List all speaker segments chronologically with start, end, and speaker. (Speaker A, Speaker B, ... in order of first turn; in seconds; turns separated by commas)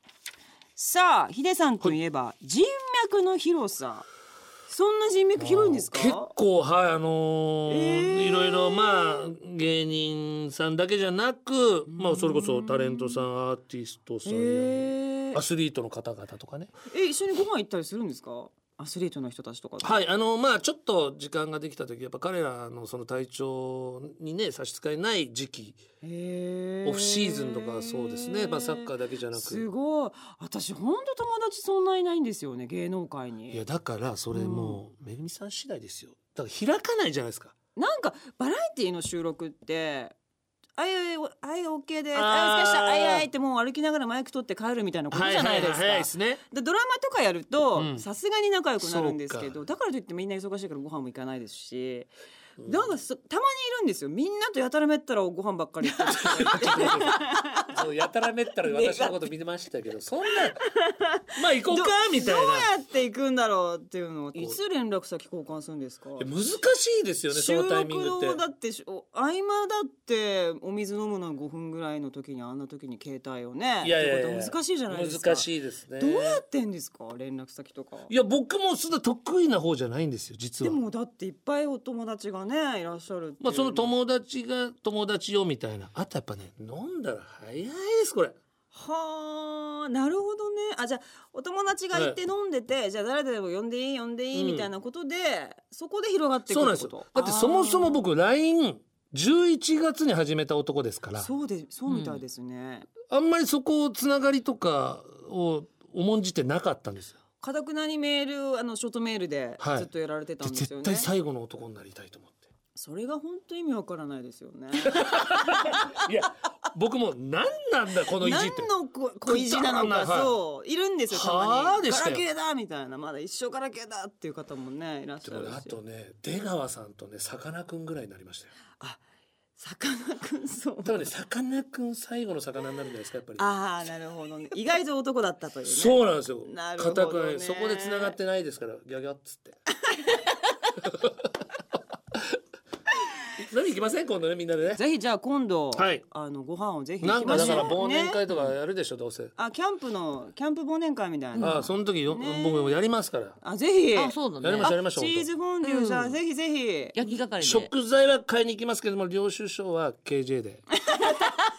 Speaker A: 0.8-4.1, Speaker A: 4.7-6.3, Speaker B: 5.4-16.7, Speaker A: 7.7-9.3, Speaker A: 11.9-13.2, Speaker A: 14.2-15.4, Speaker A: 16.9-20.0, Speaker B: 19.8-25.8, Speaker A: 26.0-33.6, Speaker B: 26.9-29.6, Speaker B: 33.5-37.5, Speaker A: 34.3-34.8, Speaker A: 37.8-40.1, Speaker A: 40.8-52.1, Speaker B: 42.1-43.3, Speaker B: 45.1-46.4, Speaker B: 47.8-48.0, Speaker B: 48.8-49.6, Speaker B: 52.6-52.9, Speaker A: 52.6-57.7, Speaker B: 55.9-60.7, Speaker A: 58.6-59.3, Speaker A: 60.6-66.3, Speaker B: 61.3-62.7, Speaker B: 66.2-68.4, Speaker A: 67.3-78.1, Speaker B: 73.8-76.4, Speaker B: 78.1-80.8, Speaker A: 80.6-83.9, Speaker B: 83.4-88.3, Speaker A: 88.7-98.0, Speaker B: 94.3-94.7, Speaker B: 96.5-101.3, Speaker A: 101.2-102.9, Speaker C: 101.9-102.2, Speaker B: 103.1-107.2, Speaker A: 107.4-111.1, Speaker B: 109.6-109.9, Speaker B: 110.4-112.4, Speaker A: 112.8-115.7, Speaker B: 114.9-118.7, Speaker A: 118.2-125.8, Speaker B: 119.2-120.3, Speaker B: 121.1-122.2, Speaker B: 125.2-128.5, Speaker A: 129.6-131.1, Speaker B: 130.8-133.5, Speaker A: 133.4-138.2, Speaker B: 135.7-139.6, Speaker A: 139.9-140.2, Speaker B: 140.8-141.1, Speaker B: 143.4-144.8, Speaker A: 144.8-148.2, Speaker B: 145.7-146.0, Speaker B: 147.0-149.3, Speaker C: 147.2-147.8, Speaker A: 149.4-152.8, Speaker C: 151.3-151.7, Speaker B: 151.4-153.4, Speaker A: 153.4-157.0, Speaker C: 154.0-154.7, Speaker B: 154.4-155.3, Speaker C: 155.6-156.2, Speaker C: 157.0-157.7, Speaker B: 157.4-160.7, Speaker A: 160.8-161.4